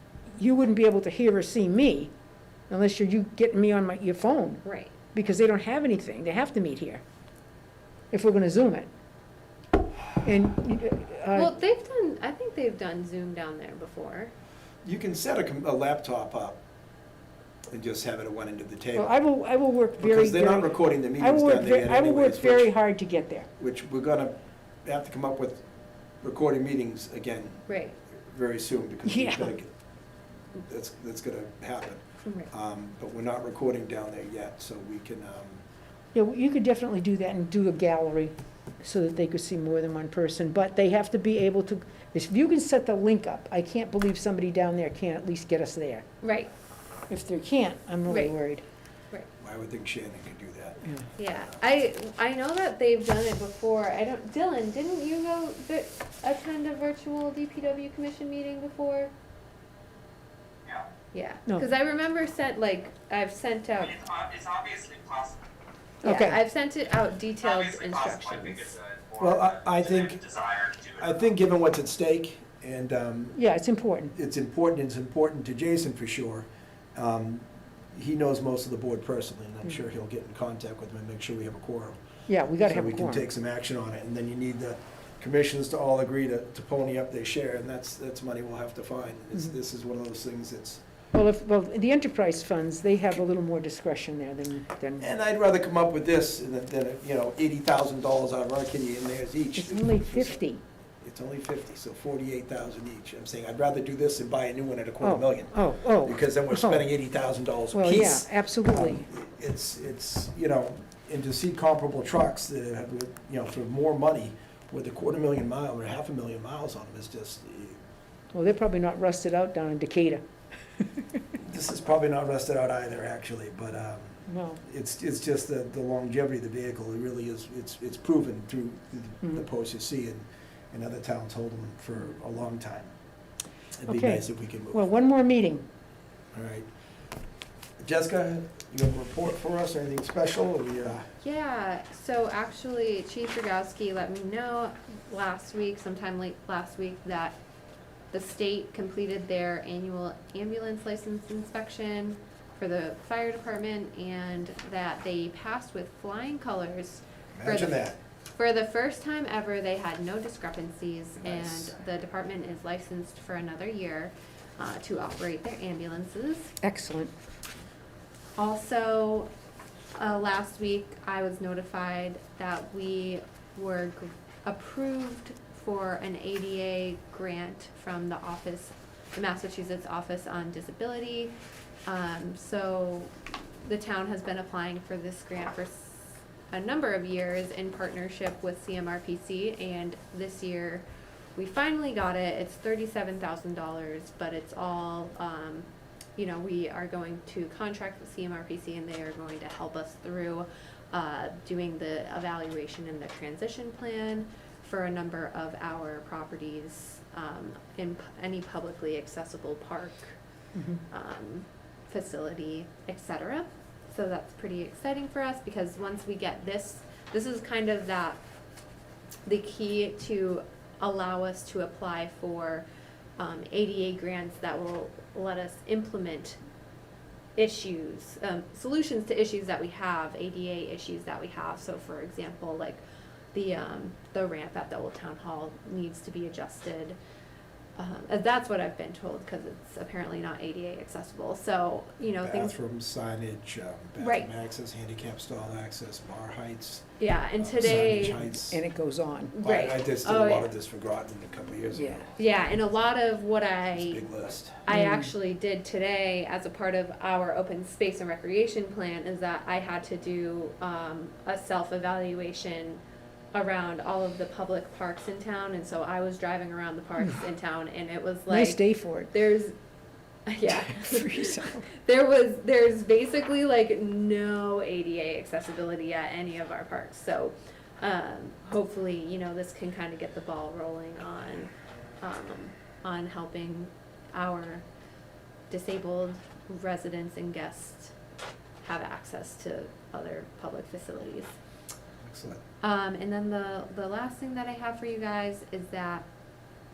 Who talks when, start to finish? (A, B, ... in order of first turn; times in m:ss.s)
0:00.3-0:02.1 A
0:02.7-0:04.6 A
0:04.6-0:04.9 B
0:05.1-0:07.0 A
0:08.1-0:08.9 A
0:10.2-0:11.5 A
0:11.3-0:14.3 B
0:14.8-0:16.6 C
0:17.7-0:19.1 C
0:19.0-0:23.5 A
0:20.0-0:22.7 C
0:23.6-0:25.6 C
0:26.2-0:29.7 C
0:27.7-0:28.0 B
0:29.0-0:29.5 A
0:30.6-0:35.6 C
0:36.1-0:46.0 A
0:46.2-0:46.5 B
0:47.1-0:48.6 A
0:48.1-0:48.4 B
0:49.4-0:51.6 C
0:51.2-0:59.1 B
1:01.1-1:04.0 B
1:03.8-1:05.4 D
1:06.0-1:08.8 B
1:06.0-1:06.4 A
1:07.4-1:11.3 D
1:09.2-1:10.2 C
1:11.0-1:13.4 C
1:13.4-1:14.1 A
1:14.1-1:22.0 C
1:22.3-1:23.2 A
1:22.6-1:30.8 C
1:31.1-1:35.1 A
1:35.0-1:40.4 C
1:39.6-1:40.6 A
1:41.0-1:57.8 C
1:45.0-1:46.8 A
1:47.7-1:49.0 A
1:58.3-2:00.2 A
2:00.8-2:01.0 A
2:01.4-2:12.9 C
2:04.3-2:04.6 A
2:13.8-2:14.9 C
2:13.9-2:15.6 A
2:16.3-2:16.7 C
2:17.8-2:21.1 C
2:21.2-2:27.4 B
2:28.1-2:46.5 B
2:37.4-2:38.0 C
2:41.2-2:41.7 C
2:46.6-2:47.1 A
2:48.4-2:49.3 B
2:50.0-3:01.4 B
3:01.9-3:10.8 B
3:11.4-3:30.2 B
3:30.5-3:30.8 A
3:30.9-3:38.2 B
3:39.3-3:42.7 B
3:43.2-3:46.4 B
3:47.4-3:52.8 B
3:53.3-3:57.0 B
3:57.8-4:02.5 B
4:02.2-4:06.8 C
4:04.0-4:04.3 B
4:07.0-4:08.2 B
4:07.4-4:08.6 C
4:07.7-4:09.3 A
4:09.3-4:10.5 B
4:09.4-4:12.1 C
4:11.7-4:12.0 A
4:12.2-4:14.0 B
4:13.7-4:14.7 C
4:14.7-4:22.8 B
4:14.7-4:15.1 A
4:23.3-4:29.6 B
4:28.3-4:29.1 A
4:30.3-4:41.5 B
4:30.5-4:31.7 A
4:42.0-4:44.6 B
4:45.5-4:47.9 B
4:48.6-4:51.3 B
4:52.0-4:52.4 C
4:52.6-4:56.0 B